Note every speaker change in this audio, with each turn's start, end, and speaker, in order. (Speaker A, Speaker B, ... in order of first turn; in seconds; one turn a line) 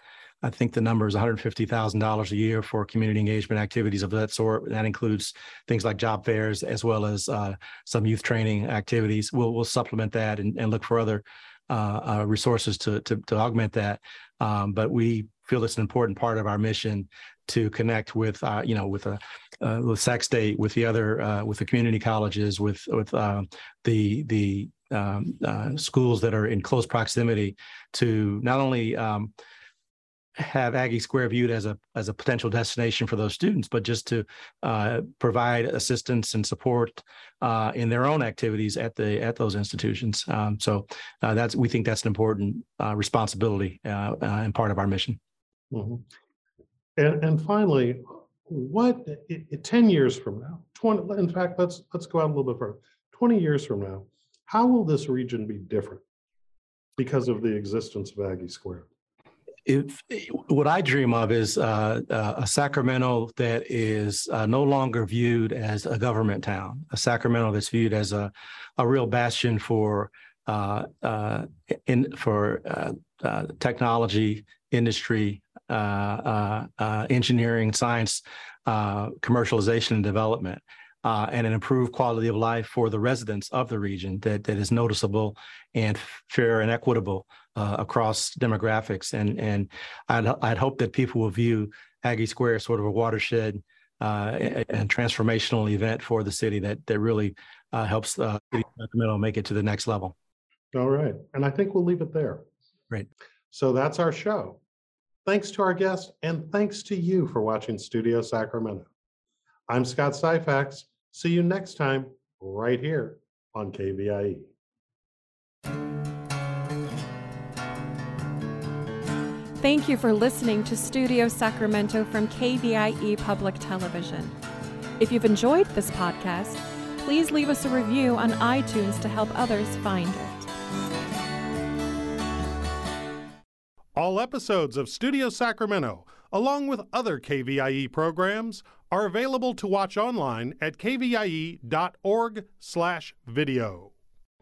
Speaker A: 0.4-29.3
Speaker A: 30.4-45.2
Speaker B: 45.7-46.0
Speaker B: 47.0-56.0
Speaker B: 57.0-58.9
Speaker A: 59.6-100.1
Speaker B: 100.7-102.5
Speaker B: 103.5-104.6
Speaker B: 105.3-108.9
Speaker B: 109.7-114.5
Speaker C: 119.6-124.3
Speaker C: 125.0-130.5
Speaker B: 133.9-143.9